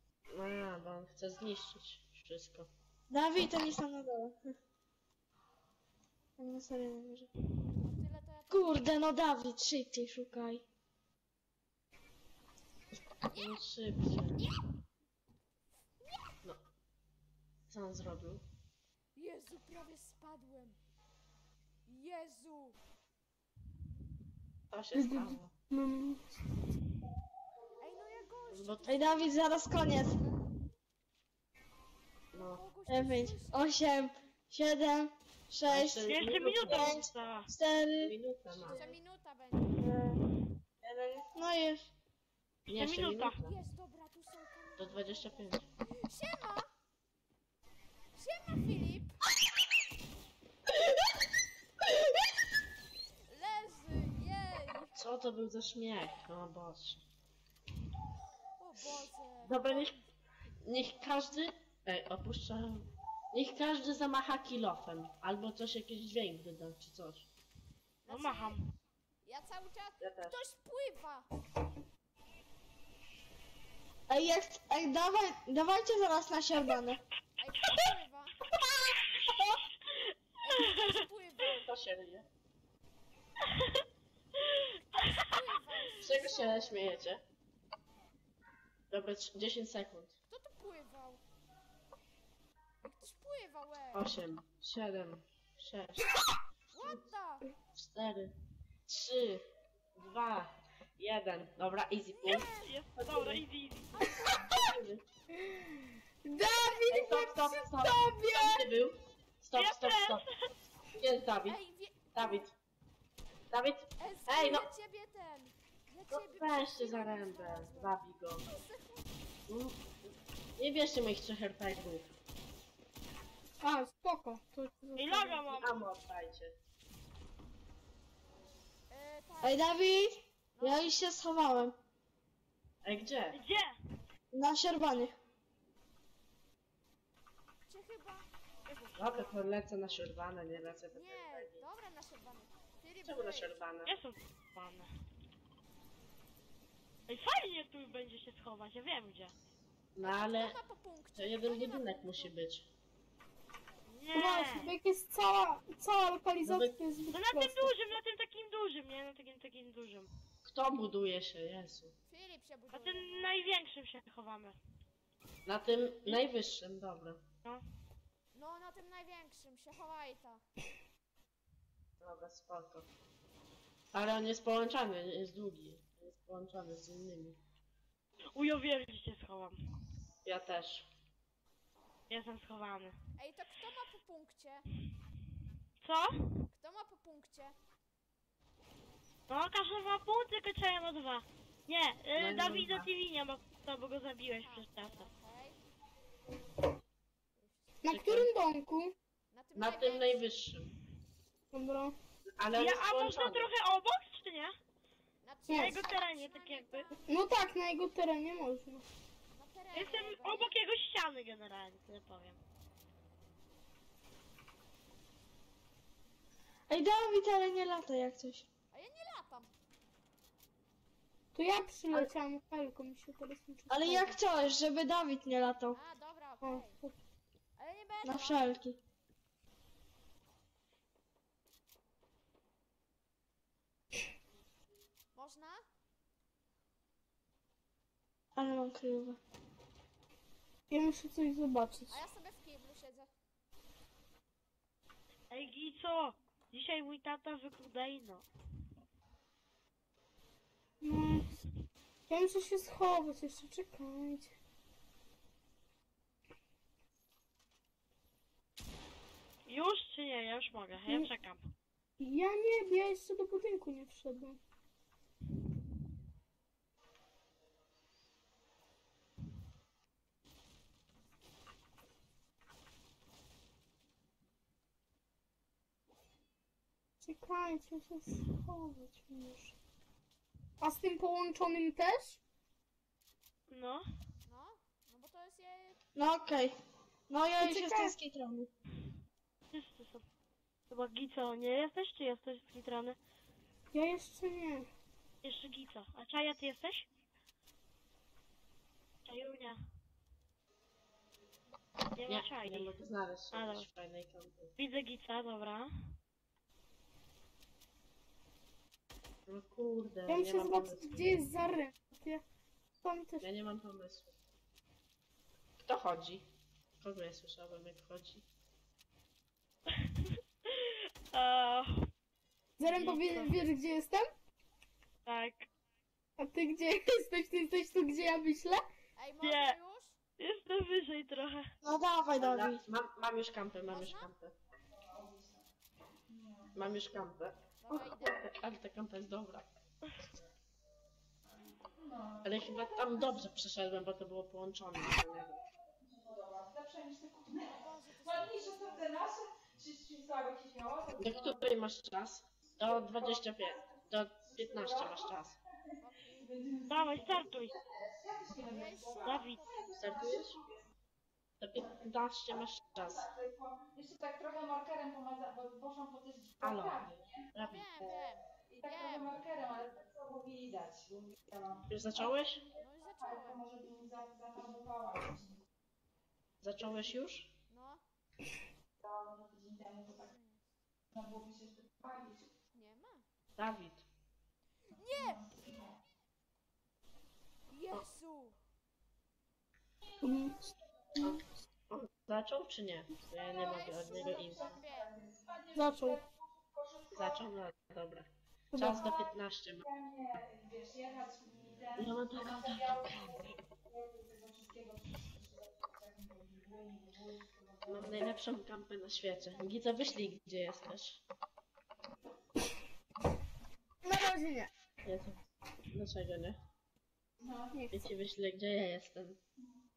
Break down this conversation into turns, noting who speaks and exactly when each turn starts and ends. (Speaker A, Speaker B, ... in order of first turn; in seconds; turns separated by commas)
Speaker A: 0.3-2.7, Speaker B: 3.1-4.5, Speaker B: 6.4-7.3, Speaker C: 7.8-8.8, Speaker B: 8.5-10.6, Speaker C: 13.3-13.6, Speaker A: 13.3-14.4, Speaker A: 17.7-18.4, Speaker C: 19.1-20.8, Speaker C: 21.9-22.8, Speaker A: 24.7-25.5, Speaker D: 24.9-26.3, Speaker C: 27.8-29.4, Speaker A: 28.5-28.9, Speaker B: 28.9-30.2, Speaker A: 32.3-32.6, Speaker C: 32.3-33.8, Speaker B: 32.9-36.1, Speaker A: 35.7-37.0, Speaker E: 36.1-37.5, Speaker B: 36.6-38.9, Speaker A: 38.0-38.8, Speaker C: 38.6-40.0, Speaker B: 39.8-40.2, Speaker B: 40.8-41.9, Speaker A: 42.7-43.5, Speaker E: 42.7-43.3, Speaker C: 43.4-46.7, Speaker A: 44.8-45.6, Speaker C: 48.1-49.2, Speaker C: 53.3-55.0, Speaker A: 55.0-57.0, Speaker C: 58.6-60.1, Speaker A: 59.5-59.9, Speaker A: 60.6-67.3, Speaker C: 68.0-68.6, Speaker E: 68.1-68.6, Speaker C: 69.2-71.3, Speaker A: 70.0-70.4, Speaker B: 74.1-77.0, Speaker C: 77.4-78.4, Speaker B: 78.7-79.6, Speaker C: 80.4-81.7, Speaker A: 81.4-82.3, Speaker E: 83.5-83.8, Speaker E: 84.3-85.3, Speaker C: 85.0-87.1, Speaker A: 86.0-87.2, Speaker A: 88.9-90.1, Speaker C: 90.3-91.2, Speaker C: 92.8-94.1, Speaker A: 93.9-96.2, Speaker C: 96.7-97.5, Speaker A: 97.7-98.3, Speaker A: 98.9-99.4, Speaker A: 99.9-103.4, Speaker C: 102.2-102.7, Speaker E: 102.5-104.1, Speaker C: 103.9-104.5, Speaker A: 104.4-105.0, Speaker D: 105.4-108.7, Speaker C: 106.4-107.5, Speaker A: 106.9-110.2, Speaker E: 109.5-110.5, Speaker A: 110.9-111.6, Speaker C: 111.4-112.5, Speaker A: 112.1-112.5, Speaker A: 113.5-114.7, Speaker C: 114.0-119.1, Speaker A: 116.1-118.5, Speaker A: 119.5-122.1, Speaker D: 123.6-125.5, Speaker E: 125.0-125.8, Speaker A: 125.5-126.5, Speaker C: 128.9-130.0, Speaker B: 129.4-131.8, Speaker C: 130.5-130.9, Speaker A: 132.8-133.4, Speaker E: 133.3-133.7, Speaker B: 134.3-135.2, Speaker C: 137.7-138.3, Speaker E: 138.7-139.4, Speaker A: 138.9-141.6, Speaker C: 140.9-143.5, Speaker A: 143.0-144.0, Speaker E: 143.8-144.9, Speaker E: 147.1-149.3, Speaker A: 149.9-150.6, Speaker C: 150.0-152.3, Speaker A: 151.2-152.7, Speaker E: 153.9-154.7, Speaker D: 154.1-157.7, Speaker A: 156.4-156.8, Speaker E: 157.1-160.1, Speaker A: 160.4-161.9, Speaker C: 162.1-163.3, Speaker E: 162.7-164.6, Speaker A: 165.4-167.2, Speaker C: 168.3-170.4, Speaker A: 172.0-172.9, Speaker A: 173.9-177.4, Speaker E: 178.3-179.6, Speaker A: 180.2-180.8, Speaker E: 182.1-182.9, Speaker C: 183.2-184.6, Speaker E: 185.8-186.3, Speaker C: 186.5-187.6, Speaker E: 189.3-195.1, Speaker A: 192.2-192.9, Speaker C: 194.4-195.6, Speaker C: 197.4-197.8, Speaker D: 197.8-198.9, Speaker A: 197.9-198.3, Speaker C: 199.3-200.4, Speaker A: 199.6-200.7, Speaker D: 201.5-201.9, Speaker A: 202.4-203.5, Speaker E: 202.6-204.5, Speaker C: 205.2-207.6, Speaker D: 205.5-205.8, Speaker E: 205.5-206.9, Speaker D: 207.1-208.8, Speaker C: 209.3-210.5, Speaker E: 209.7-212.4, Speaker B: 216.7-218.5, Speaker C: 218.7-219.5, Speaker D: 221.3-224.2, Speaker B: 223.7-225.8, Speaker C: 225.7-226.8, Speaker D: 226.4-226.9, Speaker C: 227.6-228.5, Speaker B: 228.0-228.8, Speaker C: 235.1-235.6, Speaker B: 238.3-239.2, Speaker D: 240.7-242.0, Speaker C: 241.9-243.1, Speaker E: 245.3-248.2, Speaker D: 250.8-251.4, Speaker D: 252.1-254.3, Speaker E: 259.5-261.5, Speaker D: 262.0-264.4, Speaker D: 277.0-279.5, Speaker D: 280.6-282.2, Speaker E: 283.5-283.8, Speaker C: 284.2-285.8, Speaker B: 285.9-286.5, Speaker B: 287.1-288.5, Speaker D: 287.4-287.9, Speaker E: 289.5-290.0, Speaker E: 290.7-293.0, Speaker D: 293.7-294.7, Speaker E: 295.2-296.9, Speaker E: 299.1-299.6, Speaker E: 301.9-302.7, Speaker A: 302.1-304.5, Speaker E: 303.3-303.6, Speaker E: 304.6-305.9, Speaker A: 309.3-311.2, Speaker D: 310.1-312.2, Speaker D: 312.8-313.3, Speaker A: 313.2-314.1, Speaker A: 315.6-316.3, Speaker A: 316.8-318.2, Speaker E: 319.7-321.9, Speaker D: 322.6-324.1, Speaker E: 322.6-323.3, Speaker E: 325.1-325.5, Speaker D: 326.2-328.6, Speaker C: 328.9-330.0, Speaker E: 329.2-329.6, Speaker E: 330.2-331.5, Speaker B: 331.6-332.6, Speaker A: 332.2-334.3, Speaker C: 333.7-334.1, Speaker F: 334.7-335.4, Speaker F: 336.1-336.6, Speaker A: 336.5-339.5, Speaker C: 337.6-338.2, Speaker F: 341.8-343.3, Speaker A: 342.2-345.4, Speaker F: 345.0-351.4, Speaker C: 347.4-348.9, Speaker A: 351.0-355.4, Speaker F: 352.6-360.7, Speaker C: 355.8-356.4, Speaker E: 356.7-357.5, Speaker C: 358.4-360.1, Speaker E: 359.0-359.4, Speaker A: 359.7-360.4, Speaker A: 361.4-363.1, Speaker F: 362.4-367.3, Speaker A: 366.4-367.8, Speaker C: 367.4-369.2, Speaker F: 368.5-375.4, Speaker A: 371.7-372.4, Speaker C: 372.5-373.4, Speaker A: 376.4-377.3, Speaker C: 377.5-377.8, Speaker F: 378.8-380.1, Speaker C: 380.0-380.5, Speaker F: 380.9-382.3, Speaker C: 382.5-383.0, Speaker A: 383.4-383.8, Speaker C: 384.7-385.2, Speaker F: 384.9-385.8, Speaker C: 387.5-388.4, Speaker F: 389.9-391.0, Speaker D: 390.0-391.2, Speaker A: 391.0-394.6, Speaker F: 393.2-397.3, Speaker C: 393.3-394.9, Speaker D: 395.5-396.0, Speaker A: 396.9-399.7, Speaker D: 398.5-398.9, Speaker F: 398.6-408.2, Speaker A: 401.8-403.2, Speaker A: 407.7-411.0, Speaker C: 409.0-410.2, Speaker D: 413.8-414.5, Speaker A: 414.8-415.2, Speaker A: 415.7-416.4, Speaker F: 417.2-417.6, Speaker D: 417.5-417.8, Speaker A: 417.7-419.2